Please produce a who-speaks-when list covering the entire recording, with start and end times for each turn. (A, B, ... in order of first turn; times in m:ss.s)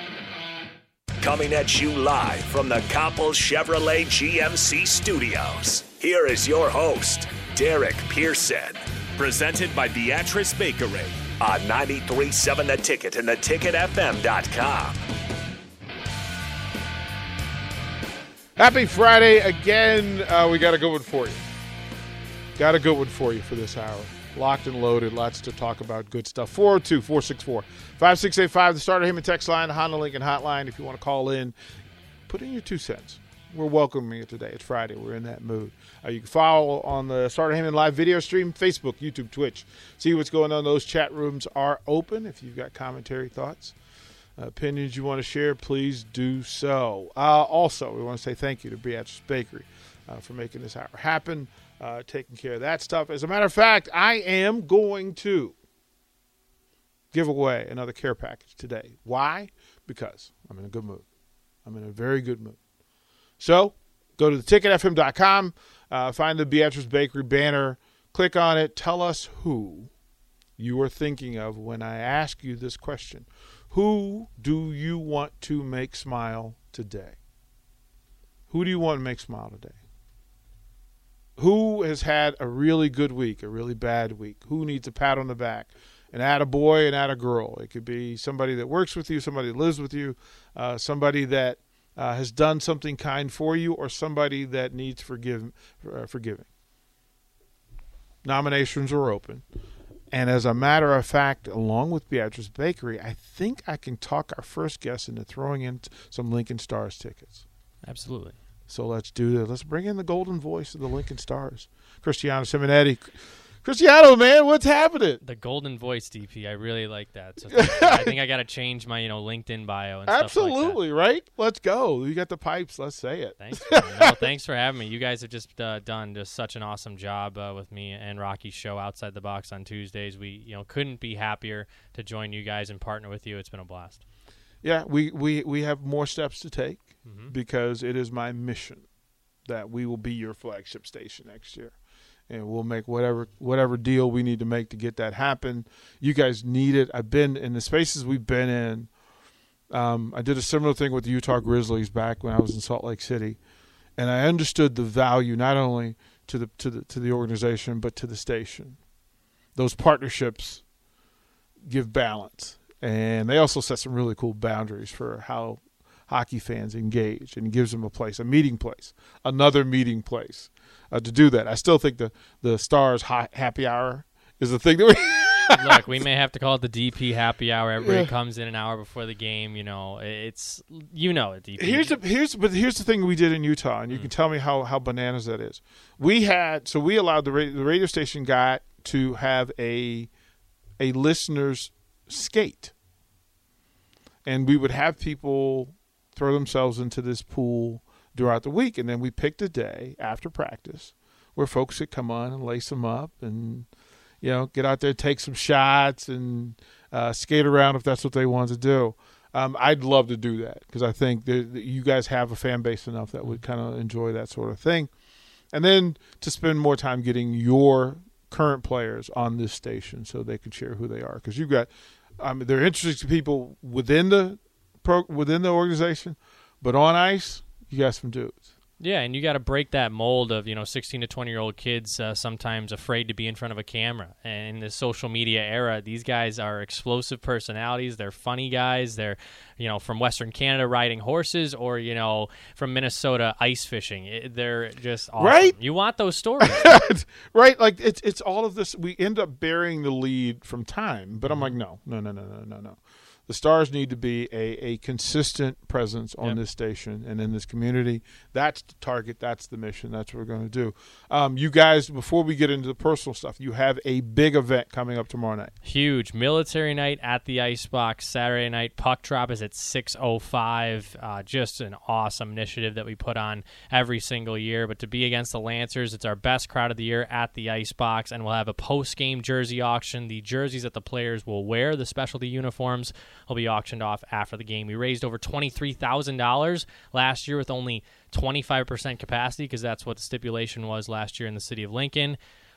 0:01.2-0:15.0 A
0:18.6-0:21.4 B
0:22.6-0:31.5 B
0:32.3-0:43.8 B
0:44.4-0:55.6 B
0:57.1-1:01.0 B
1:01.6-1:02.6 B
1:03.4-1:09.9 B
1:10.6-1:17.2 B
1:18.5-1:19.8 B
1:21.4-1:36.5 B
1:38.2-1:39.4 B
1:40.1-1:47.4 B
1:47.8-1:48.4 C
1:48.7-1:55.2 B
1:55.2-2:00.8 C
1:57.5-1:58.1 B
2:00.0-2:04.2 B
2:03.4-2:14.0 C
2:14.6-2:18.8 B
2:17.0-2:17.3 C
2:19.4-2:21.7 B
2:22.3-2:28.9 B
2:29.7-2:33.4 B
2:34.0-2:38.8 B
2:39.6-2:40.6 B
2:41.7-2:55.8 B
2:55.6-3:02.0 C
2:57.8-2:58.1 B
3:01.6-3:10.1 B
3:10.8-3:12.7 B
3:14.2-3:23.7 B
3:24.2-3:34.9 B
3:35.5-3:48.4 B
3:48.8-4:06.8 C
4:05.2-4:05.6 B
4:06.4-4:25.5 B
4:11.2-4:11.5 C
4:25.6-4:52.2 C